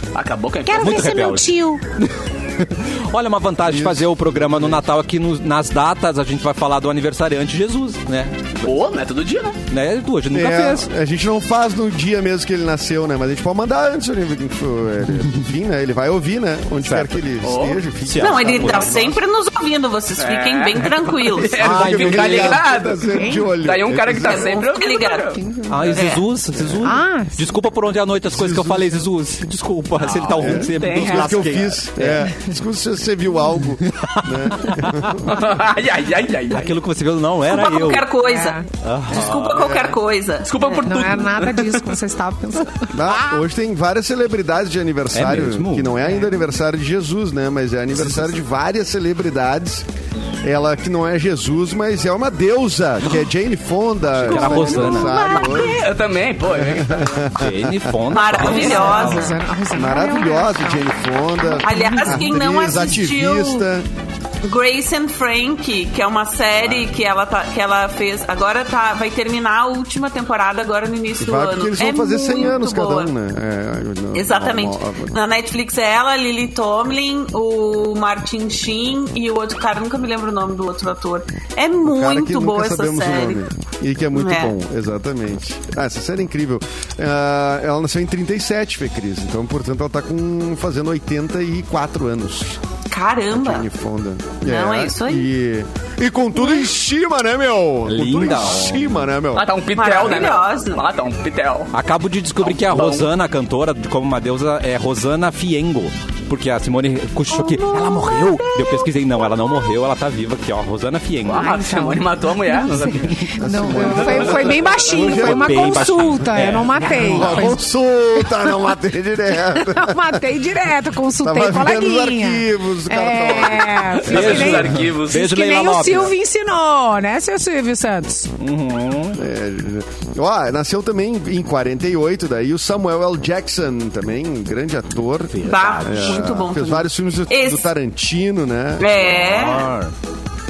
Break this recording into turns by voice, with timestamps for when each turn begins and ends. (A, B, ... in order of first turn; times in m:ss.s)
0:00.1-0:01.1 A
0:00.6-0:01.8 B
0:00.7-0:08.7 C
0:03.6-0:04.9 D
0:08.6-0:09.6 A
0:09.7-0:10.9 C
0:10.3-0:19.2 D
0:16.8-0:17.2 C
0:17.4-0:17.8 A
0:18.0-0:19.0 C
0:18.2-0:21.7 E
0:20.2-0:25.4 A
0:21.6-0:24.6 D
0:21.6-0:22.6 C
0:23.1-0:23.5 B
0:24.2-0:25.4 E
0:25.3-0:26.0 B
0:25.7-0:32.3 C
0:25.9-0:26.2 E
0:26.8-0:27.4 B
0:28.3-0:29.0 D
0:30.0-0:31.4 A
0:30.4-0:35.4 D
0:33.8-0:35.2 C
0:35.2-0:36.8 A
0:36.5-0:38.1 C
0:37.5-0:41.0 E
0:38.2-0:38.6 B
0:38.8-0:39.5 C
0:39.3-0:40.0 D
0:40.4-0:41.9 A
0:40.8-0:43.4 B
0:42.9-0:49.8 D
0:45.1-0:46.0 C
0:48.0-0:48.3 C
0:50.4-0:55.8 D
0:54.2-0:55.3 C
0:54.5-0:57.3 A
0:54.7-0:55.7 B
0:56.5-0:58.0 D
0:57.3-0:59.3 C
0:58.1-0:59.4 E
0:58.4-1:00.9 B
0:58.4-0:58.9 A
0:59.7-1:03.9 D
1:01.4-1:02.3 B
1:01.6-1:03.6 E
1:04.4-1:13.1 E
1:11.2-1:15.1 D
1:14.1-1:23.4 E
1:21.8-1:32.6 D
1:24.1-1:24.5 E
1:32.9-1:33.6 E
1:33.3-1:39.5 D
1:34.4-1:35.3 E
1:37.9-1:39.0 C
1:39.3-1:41.7 A
1:39.7-1:40.8 E
1:41.7-1:51.5 C
1:42.4-1:43.1 A
1:51.2-1:53.3 A
1:51.3-1:57.6 B
1:53.4-1:56.1 D
1:53.7-1:57.5 C
1:56.8-2:00.2 D
1:59.4-2:08.3 B
2:01.2-2:04.0 D
2:04.0-2:06.1 C
2:04.0-2:05.3 A
2:08.4-2:09.2 C
2:09.2-2:19.2 D
2:15.3-2:16.2 C
2:15.4-2:17.7 E
2:18.8-2:19.7 E
2:19.2-2:19.9 C